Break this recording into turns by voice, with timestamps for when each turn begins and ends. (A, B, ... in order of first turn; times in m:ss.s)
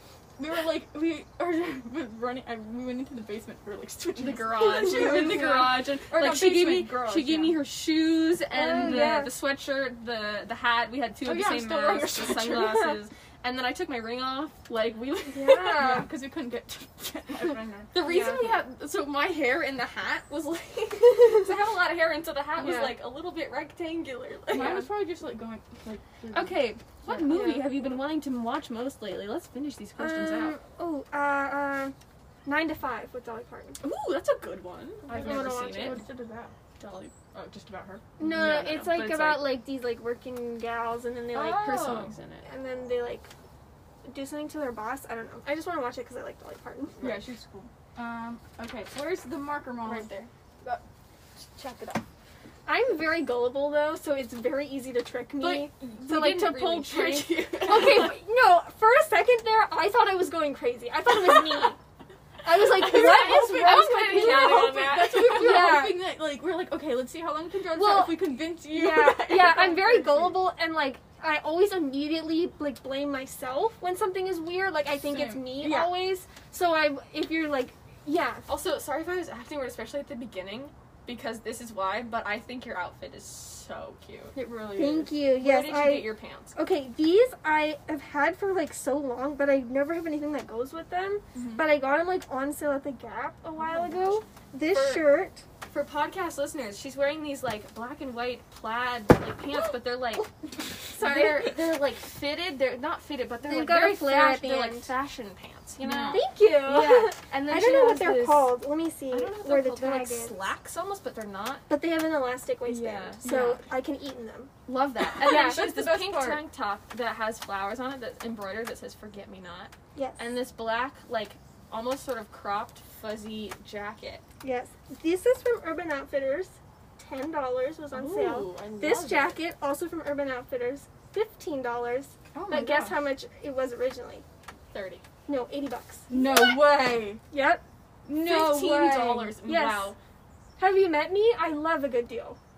0:00.4-0:07.6 A
0:04.2-0:15.8 B
0:05.1-0:05.3 C
0:08.5-0:09.3 C
0:11.2-0:12.9 A
0:15.3-0:16.1 C
0:15.7-0:18.0 A
0:17.9-0:24.9 B
0:18.0-0:18.5 C
0:22.6-0:23.0 C
0:24.5-0:27.4 A
0:24.6-0:24.8 C
0:26.3-0:30.6 B
0:27.3-0:27.6 C
0:30.0-0:31.9 C
0:32.4-0:33.8 C
0:33.8-0:36.0 B
0:35.1-0:36.0 C
0:35.1-0:36.5 A
0:36.8-0:39.6 B
0:38.2-0:43.3 C
0:41.3-0:42.4 B
0:44.0-0:47.2 C
0:47.0-0:50.1 A
0:49.8-0:50.3 B
0:51.4-0:52.0 A
0:52.7-1:01.8 C
0:55.4-0:58.2 B
1:02.4-1:06.0 C
1:02.7-1:05.9 B
1:02.8-1:10.4 A
1:07.7-1:18.5 C
1:15.1-1:15.9 A
1:18.5-1:24.4 B
1:24.3-1:25.2 A
1:24.8-1:35.4 C
1:25.4-1:26.6 B
1:31.4-1:31.7 A
1:34.7-1:35.1 B
1:35.7-1:40.3 B
1:40.9-1:48.5 B
1:41.0-1:41.4 A
1:43.4-1:44.9 C
1:45.8-1:46.3 A
1:46.1-1:50.4 C
1:49.1-1:51.7 B
1:51.7-1:54.5 C
1:52.7-1:53.3 B
1:53.2-1:53.6 A
1:54.7-2:04.2 B
1:55.2-1:56.4 A
1:55.2-1:55.6 C
2:00.0-2:00.2 C
2:04.4-2:14.2 C
2:07.9-2:09.4 B
2:12.3-2:13.0 A
2:14.7-2:15.0 B
2:15.3-2:16.6 C
2:16.1-2:17.2 A
2:17.3-2:17.6 C
2:18.1-2:19.4 A
2:18.1-2:20.0 B
2:19.4-2:19.9 C
2:20.6-2:22.4 C